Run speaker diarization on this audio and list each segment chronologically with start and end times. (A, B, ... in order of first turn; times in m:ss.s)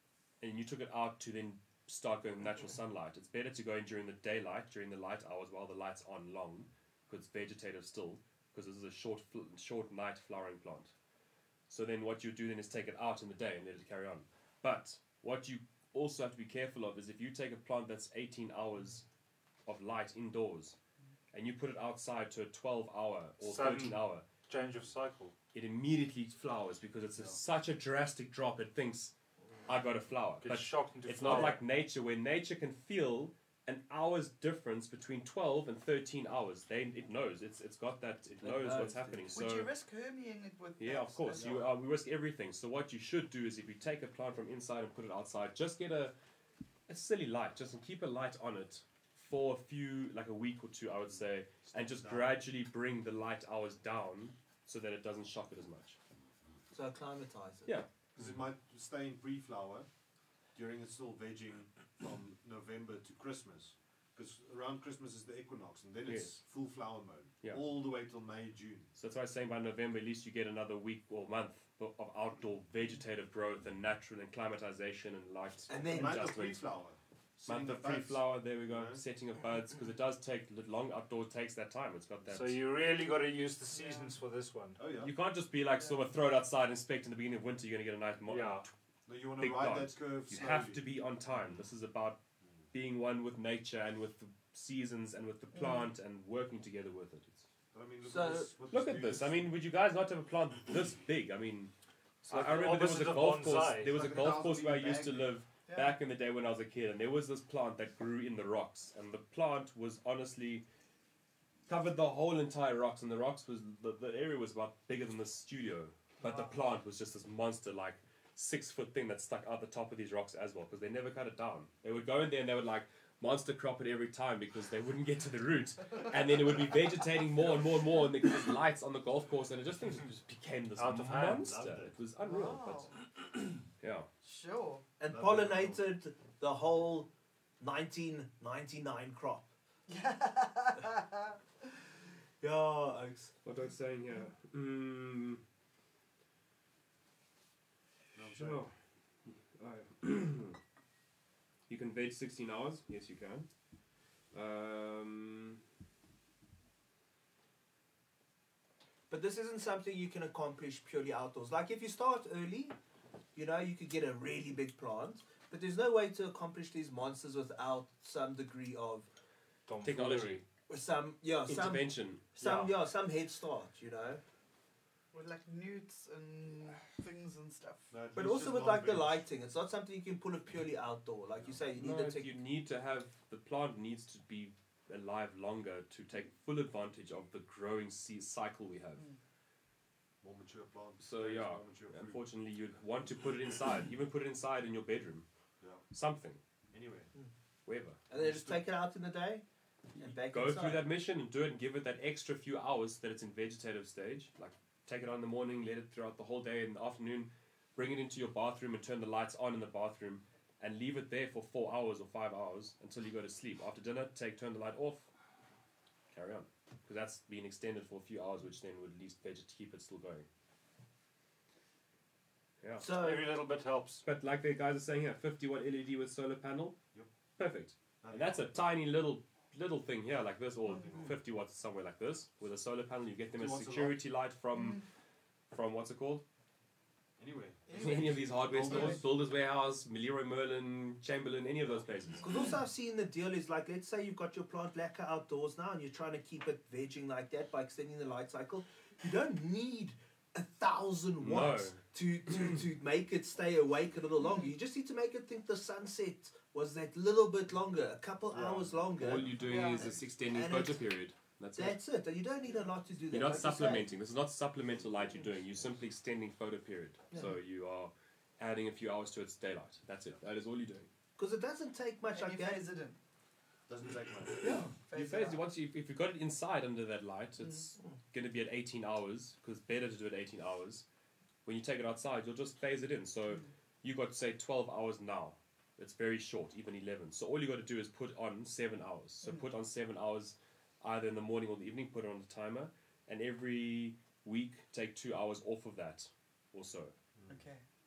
0:00.4-0:10.9 A
0:11.7-0:19.0 A
0:19.7-0:20.8 A
0:21.3-0:24.3 A
0:23.4-0:25.3 B
0:25.5-0:29.1 A
0:29.7-0:39.7 A
0:30.4-0:31.6 B
0:38.4-0:39.2 C
0:39.3-0:41.5 D
0:40.8-0:46.1 A
0:41.4-0:41.7 E
0:46.9-0:56.0 A
0:51.1-0:52.4 E
0:56.7-0:57.7 C
0:58.2-0:59.9 E
1:00.6-1:08.9 E
1:06.0-1:06.4 A
1:09.0-1:16.7 A
1:15.7-1:16.4 C
1:15.9-1:19.0 E
1:17.4-1:22.6 A
1:22.3-1:24.8 B
1:23.7-1:24.1 D
1:24.8-1:25.1 E
1:25.0-1:28.7 A
1:28.3-1:28.7 B
1:29.1-1:30.9 E
1:29.4-1:32.2 A
1:32.7-1:37.5 A
1:35.5-1:35.9 D
1:37.7-1:39.5 E
1:38.0-1:38.5 C
1:38.7-1:41.7 A
1:42.3-1:50.7 A
1:42.3-1:44.0 B
1:43.9-1:45.3 E
1:45.7-1:45.9 D
1:51.7-2:12.9 A
1:56.2-1:56.6 D
2:10.8-2:11.5 B
2:11.4-2:12.0 E
2:12.2-2:12.9 D
2:13.8-2:14.1 A
2:14.2-2:14.8 D
2:15.0-2:19.5 C
2:15.1-2:15.8 E
2:19.9-2:21.4 D
2:22.4-2:23.3 C
2:23.4-2:25.4 A
2:28.2-2:28.6 E
2:28.2-2:28.7 A
2:29.2-2:30.6 A
2:31.7-2:33.5 A
2:34.3-2:35.6 A
2:39.1-2:42.8 C
2:43.4-2:49.1 C
2:49.7-2:50.4 B
2:49.8-2:50.4 A
2:50.7-2:54.2 C
2:51.5-2:52.4 A
2:52.4-2:52.7 B
2:55.1-2:57.9 D
2:57.9-2:59.2 E
2:58.2-3:02.4 C
3:01.7-3:09.0 A
3:10.2-3:12.2 E
3:11.0-3:15.3 A
3:15.9-3:16.4 A
3:16.7-3:17.1 E
3:17.7-3:18.0 A
3:18.1-3:19.4 C
3:18.2-3:18.5 E
3:20.0-3:35.1 A
3:20.0-3:20.9 C
3:36.1-3:40.3 A
3:42.8-3:43.3 C
3:42.9-3:44.0 B
3:44.0-3:46.8 A
3:47.4-3:54.8 A
3:48.0-3:48.5 E
3:50.7-3:51.1 D
3:50.8-3:51.1 E
3:53.3-3:54.0 E
3:54.5-3:54.8 D
3:55.5-3:56.2 A
3:57.2-3:59.1 E
3:57.7-3:59.0 D
3:57.8-4:02.4 A
4:02.2-4:19.3 C
4:11.2-4:11.8 A
4:14.2-4:14.5 D
4:18.3-4:19.5 E
4:19.0-4:21.8 A
4:19.4-4:20.0 D
4:20.3-4:20.8 C
4:21.6-4:23.9 C
4:23.1-4:30.9 A
4:24.8-4:25.7 E
4:31.2-4:32.7 C
4:32.1-4:33.0 D
4:33.7-4:34.6 E
4:34.4-4:34.7 C
4:34.4-4:35.4 D
4:34.9-4:40.9 A
4:41.4-4:56.9 A
4:57.2-4:57.4 E
4:57.3-4:57.6 D